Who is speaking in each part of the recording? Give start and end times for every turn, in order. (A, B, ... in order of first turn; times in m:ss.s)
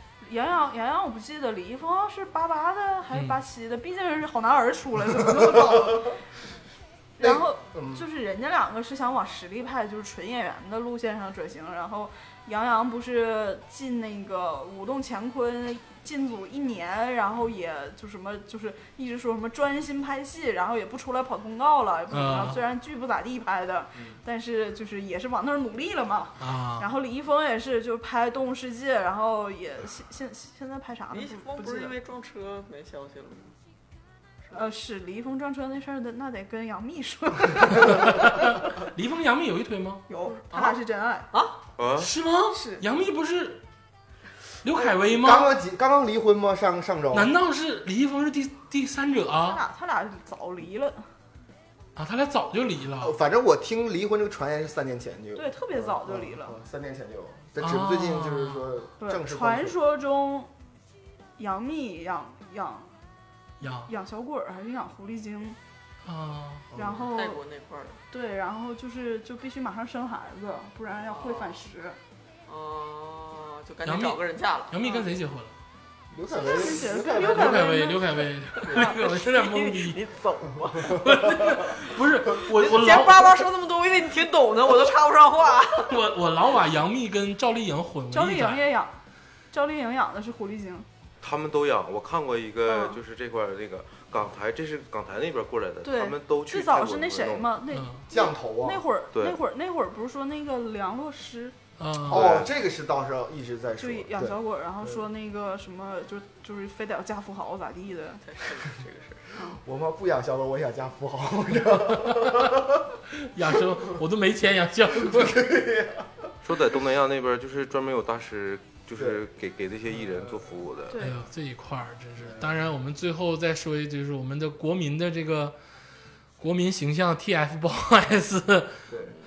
0:00.2-0:06.2 A
0:03.1-0:03.4 B
0:07.2-0:31.9 A
0:07.2-0:08.0 C
0:22.1-0:22.6 B
0:26.4-0:26.9 B
0:31.1-0:33.5 D
0:34.5-0:38.6 A
0:37.9-0:40.0 B
0:40.1-0:41.3 A
0:40.3-0:40.8 D
0:41.3-0:41.6 D
0:41.8-0:42.1 E
0:42.0-0:43.6 B
0:42.5-0:42.8 A
0:44.6-0:45.5 B
0:45.1-0:47.3 C
0:47.1-0:49.6 B
0:49.4-0:51.0 A
0:52.0-0:53.2 B
0:53.0-0:59.8 C
0:55.4-0:56.6 A
0:57.6-0:58.7 B
0:59.0-1:00.5 A
1:01.4-1:02.9 A
1:03.6-1:03.9 B
1:03.9-1:05.6 A
1:06.0-1:06.7 B
1:06.7-1:07.1 C
1:06.8-1:07.4 A
1:07.1-1:08.0 D
1:08.1-1:12.0 A
1:11.0-1:11.6 D
1:12.5-1:15.1 D
1:13.8-1:15.5 B
1:16.1-1:17.6 C
1:16.3-1:18.1 A
1:17.2-1:20.0 B
1:18.6-1:21.4 D
1:18.7-1:19.0 A
1:20.9-1:23.3 B
1:22.5-1:26.0 D
1:25.9-1:28.6 B
1:28.1-1:29.0 A
1:29.5-1:30.9 A
1:31.2-1:37.6 E
1:32.7-1:33.0 A
1:35.8-1:41.6 A
1:37.7-1:38.0 B
1:38.1-1:38.8 C
1:39.1-1:39.4 E
1:41.8-1:42.4 B
1:42.1-1:44.4 C
1:42.1-1:42.4 E
1:43.8-1:48.2 A
1:48.2-1:49.3 D
1:49.5-1:52.8 C
1:53.2-1:55.5 B
1:55.0-1:56.2 C
1:56.4-2:01.0 E
1:59.9-2:00.3 C
2:00.9-2:01.2 A
2:01.0-2:05.6 B
2:06.4-2:08.8 B
2:08.9-2:09.1 C